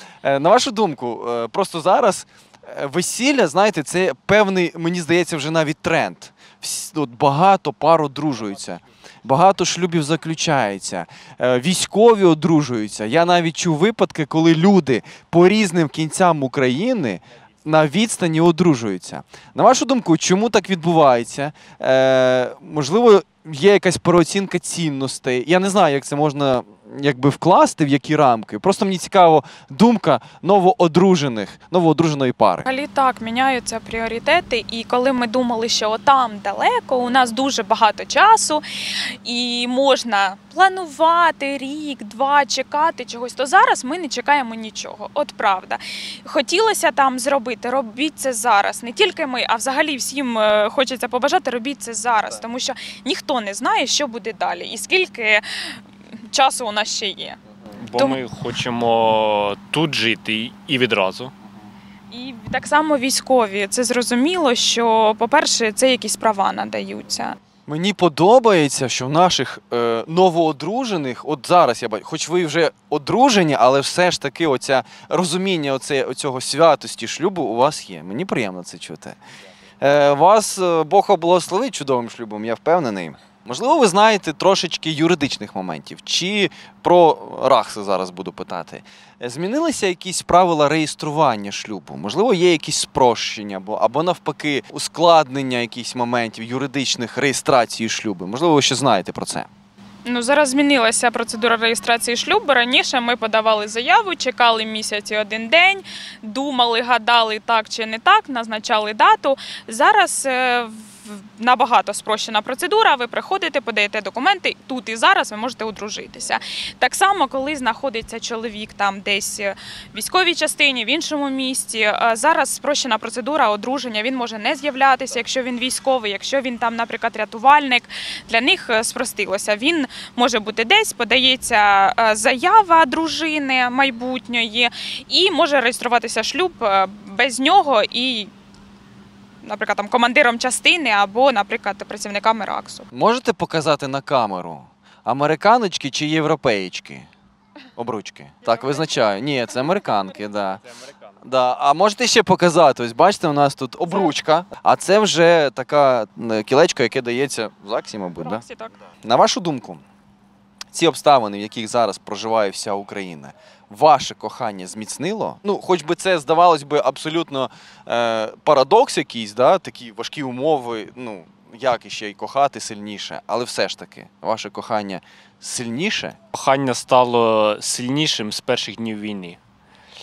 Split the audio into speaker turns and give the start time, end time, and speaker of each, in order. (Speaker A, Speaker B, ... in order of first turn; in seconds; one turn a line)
Speaker A: 0.2-32.7
Speaker B: 32.7-38.6
Speaker B: 39.2-55.4
Speaker B: 56.3-57.4
Speaker C: 57.8-61.3
Speaker B: 62.1-67.4
Speaker A: 67.7-79.2
Speaker A: 79.8-99.5
Speaker B: 100.1-138.3
Speaker B: 139.4-142.8
Speaker A: 142.9-147.1
Speaker A: 147.8-150.6
Speaker A: 151.2-158.4
Speaker B: 158.2-158.7
Speaker A: 159.0-159.8
Speaker A: 160.7-176.2
Speaker C: 176.3-179.4